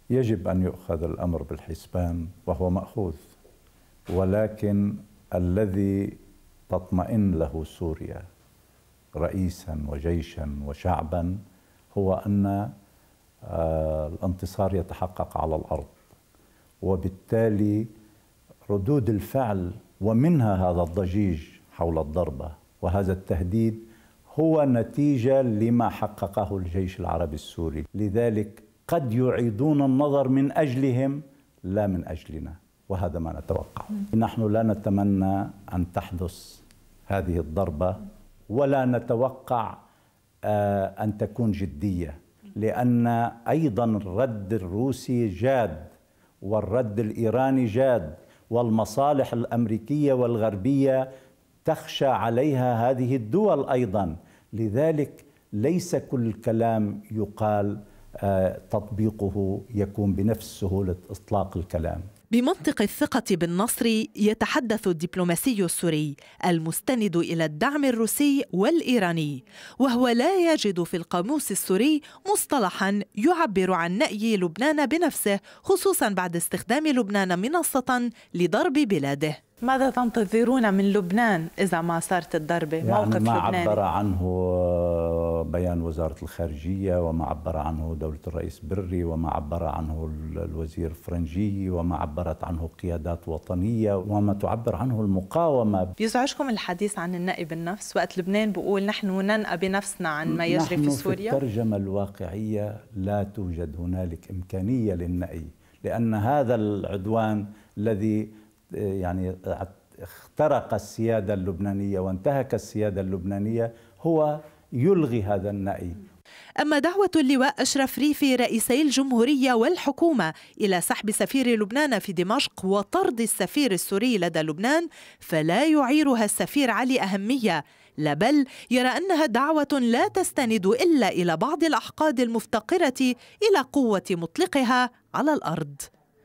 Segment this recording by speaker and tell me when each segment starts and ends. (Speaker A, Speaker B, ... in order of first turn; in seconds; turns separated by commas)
Speaker A: 0.1-3.2, Speaker A: 4.1-6.2, Speaker A: 6.7-8.2, Speaker A: 9.2-11.3, Speaker A: 11.9-12.7, Speaker A: 13.4-15.9, Speaker A: 16.8-17.9, Speaker A: 18.7-39.8, Speaker A: 40.5-45.9, Speaker A: 46.4-51.0, Speaker A: 51.6-62.0, Speaker B: 62.3-79.4, Speaker C: 79.6-83.8, Speaker A: 82.8-95.9, Speaker C: 96.0-101.4, Speaker A: 100.2-116.0, Speaker B: 116.6-135.9